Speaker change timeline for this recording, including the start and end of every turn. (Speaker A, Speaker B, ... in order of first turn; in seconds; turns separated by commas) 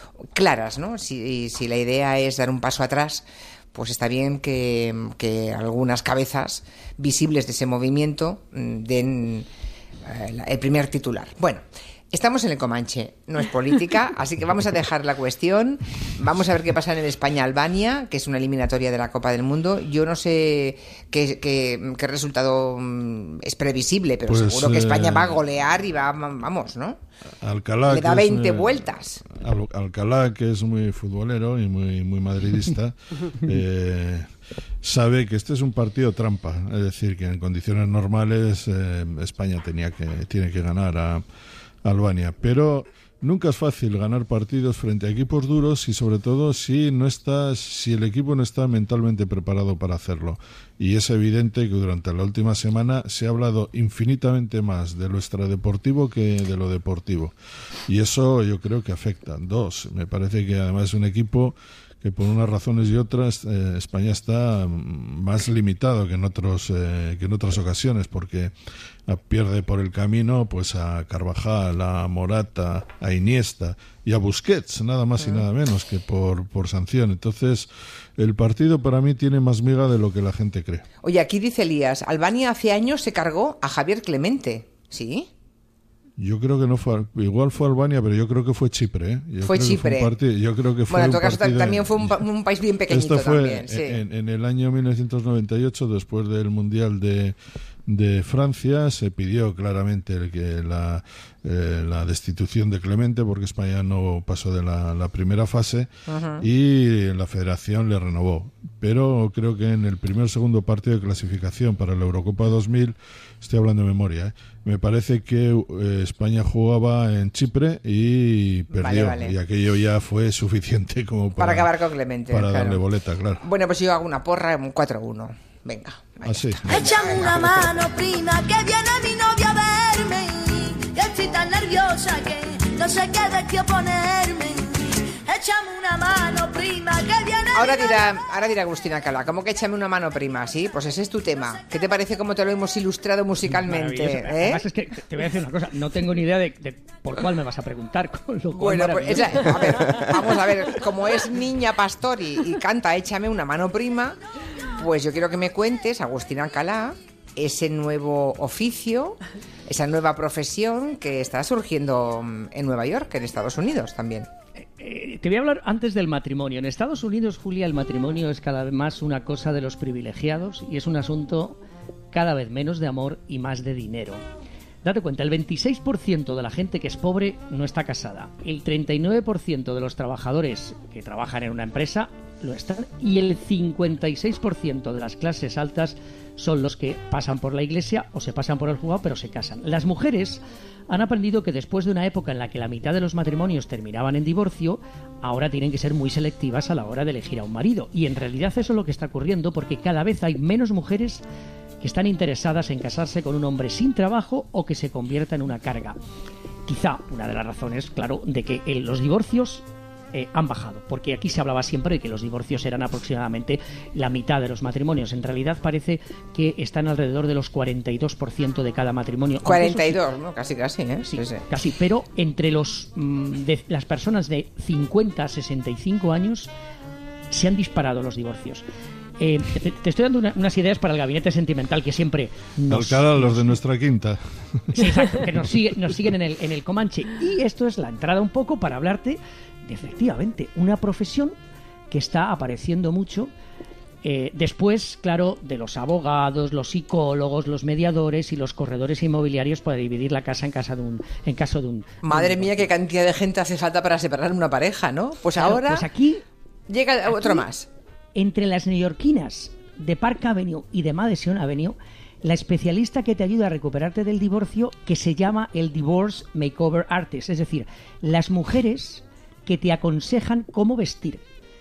Speaker A: 0.3-9.5, Speaker A: 10.0-27.0, Speaker B: 24.3-25.4, Speaker B: 27.4-34.3, Speaker A: 27.9-29.2, Speaker B: 34.8-41.2, Speaker B: 41.8-57.3, Speaker B: 57.9-68.5, Speaker B: 69.1-80.8, Speaker A: 75.2-75.4, Speaker A: 81.0-85.3, Speaker B: 86.2-92.2, Speaker A: 89.4-90.1, Speaker A: 90.9-94.0, Speaker B: 92.9-97.3, Speaker B: 97.9-105.9, Speaker A: 106.1-106.5, Speaker B: 106.4-121.7, Speaker A: 118.7-119.3, Speaker A: 121.4-122.8, Speaker B: 122.3-123.4, Speaker A: 123.4-127.5, Speaker B: 126.2-126.9, Speaker C: 126.7-138.2, Speaker A: 137.5-144.6, Speaker D: 143.5-150.1, Speaker A: 148.6-154.2, Speaker A: 154.7-164.3, Speaker D: 164.8-171.6, Speaker D: 172.1-174.2, Speaker D: 174.8-201.2, Speaker D: 201.8-206.0, Speaker D: 206.7-220.0, Speaker A: 219.4-221.4, Speaker D: 221.0-226.5, Speaker D: 227.3-228.6, Speaker D: 229.2-233.6, Speaker B: 232.7-234.8, Speaker D: 234.7-241.3, Speaker D: 241.9-243.3, Speaker D: 244.0-252.7, Speaker A: 252.0-255.8, Speaker D: 255.4-256.2, Speaker A: 256.7-257.7, Speaker D: 258.1-271.2